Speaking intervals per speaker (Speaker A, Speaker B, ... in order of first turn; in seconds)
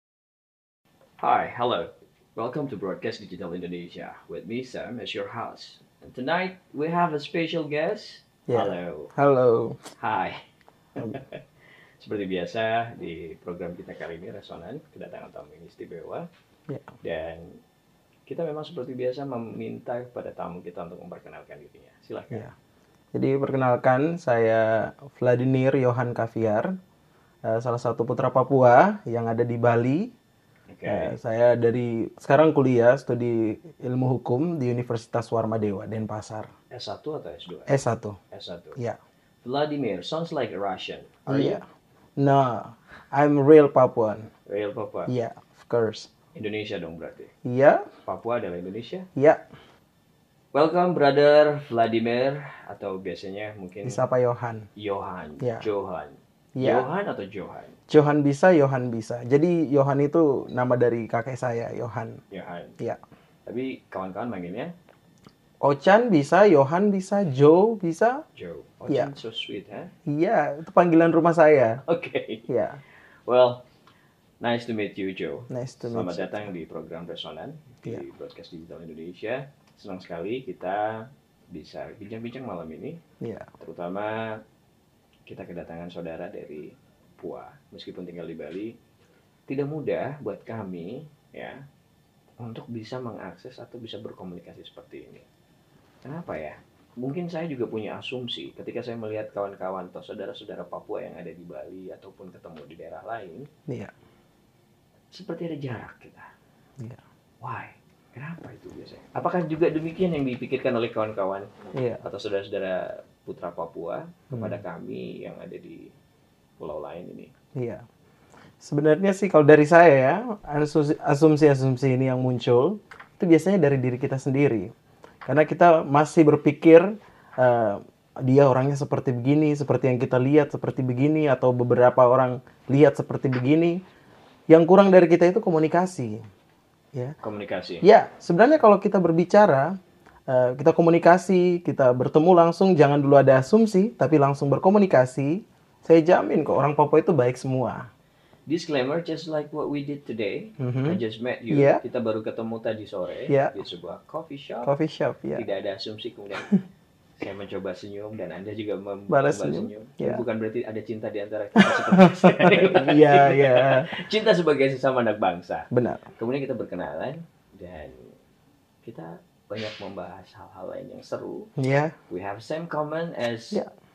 Speaker A: 1.2-9.1, 10.0-10.4, 10.9-11.4, 12.0-16.3, 17.0-17.6, 18.3-22.5, 30.7-31.2, 36.7-37.8, 38.3-38.8, 39.4-41.6, 44.5-45.1, 46.3-47.3, 48.0-49.1, 50.5-54.0, 54.8-57.8, 62.3-62.8, 63.5-64.7, 68.3-69.9, 71.8-72.5, 73.3-73.7, 74.4-83.0, 83.6-84.4, 85.3-88.8, 89.5-91.6, 92.4-95.3, 96.0-103.5, 105.1-106.3, 107.4-111.5, 112.0-115.9, 116.6-117.3, 137.2-137.8, 148.5-154.7, 155.3-156.6, 157.2-168.2, 168.8-171.5, 172.1-173.6
Speaker B: 8.5-9.8, 23.1-26.7, 27.5-30.1, 30.9-36.5, 37.7-38.2, 41.3-41.6, 42.2-44.3, 45.1-46.1, 47.5-47.8, 49.2-49.4, 53.9-54.7, 55.4-55.7, 56.6-56.9, 57.9-62.2, 65.6-68.2, 70.1-71.8, 72.5-72.8, 75.5-76.5, 83.2-83.5, 111.7-112.0, 114.3-114.6, 117.6-117.8, 118.6-124.7, 125.3-133.8, 134.5-136.2, 137.8-139.8, 140.3-147.9, 150.6-151.0, 151.5-151.8, 153.3-153.6, 154.7-155.4, 159.1-160.2, 161.7-163.9, 165.7-166.1, 171.6-171.9